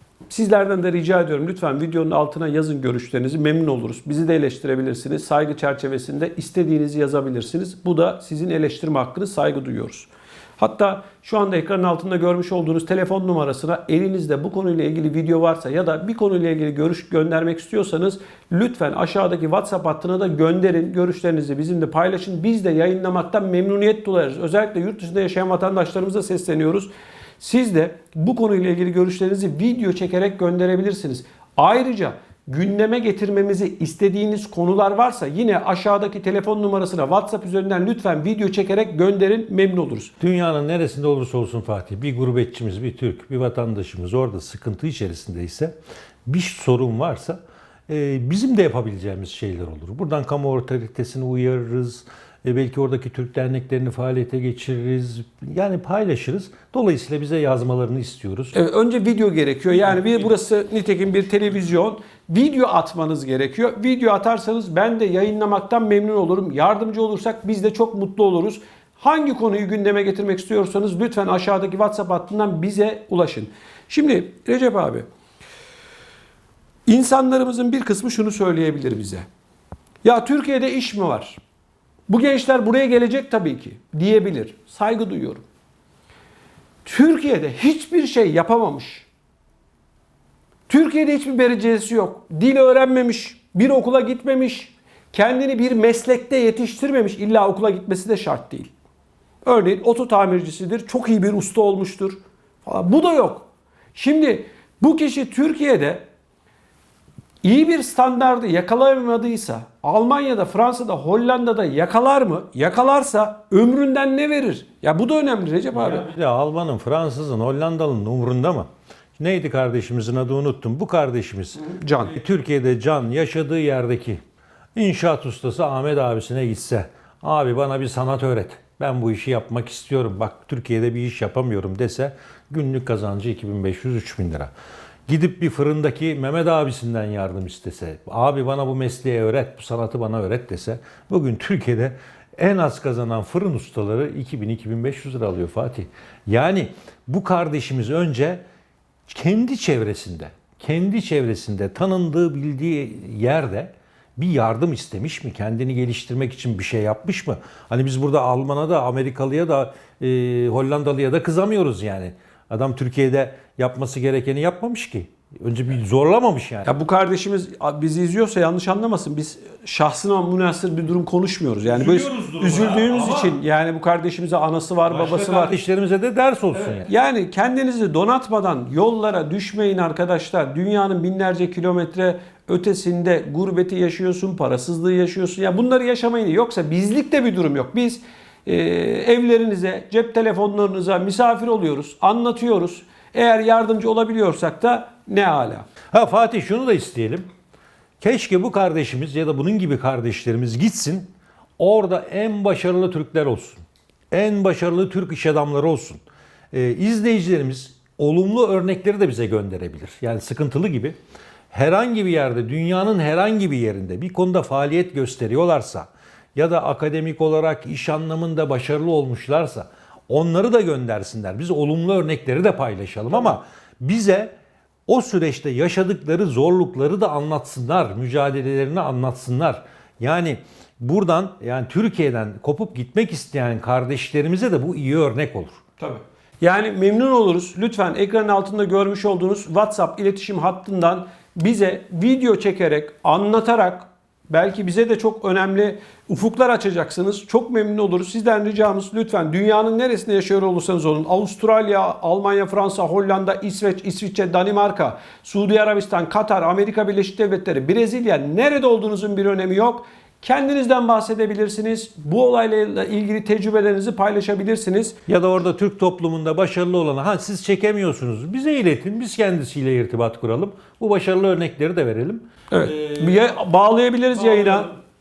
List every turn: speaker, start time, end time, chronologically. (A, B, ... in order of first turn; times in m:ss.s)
0:00.3-0:40.1 A
0:40.2-0:58.6 B
0:58.5-1:15.0 A
1:16.9-1:19.3 A
1:20.0-1:21.4 A
1:22.1-1:25.4 A
1:26.8-1:29.1 A
1:30.7-1:38.7 A
1:39.4-1:46.0 A
1:47.4-1:56.0 A
1:55.7-2:04.2 B
2:01.7-2:02.1 A
2:04.7-2:14.5 B
2:15.1-2:28.4 B
2:29.1-2:46.7 B
2:46.6-2:55.5 A
2:51.7-2:53.4 B
2:54.9-2:56.9 B
2:56.8-3:15.7 A
3:15.9-3:17.3 B
3:18.0-3:23.6 B
3:24.1-3:31.0 B
3:31.5-3:44.3 B
3:44.9-3:55.6 B
3:55.8-4:25.0 A
4:25.1-4:33.4 B
4:32.5-4:34.7 A
4:34.1-4:34.8 B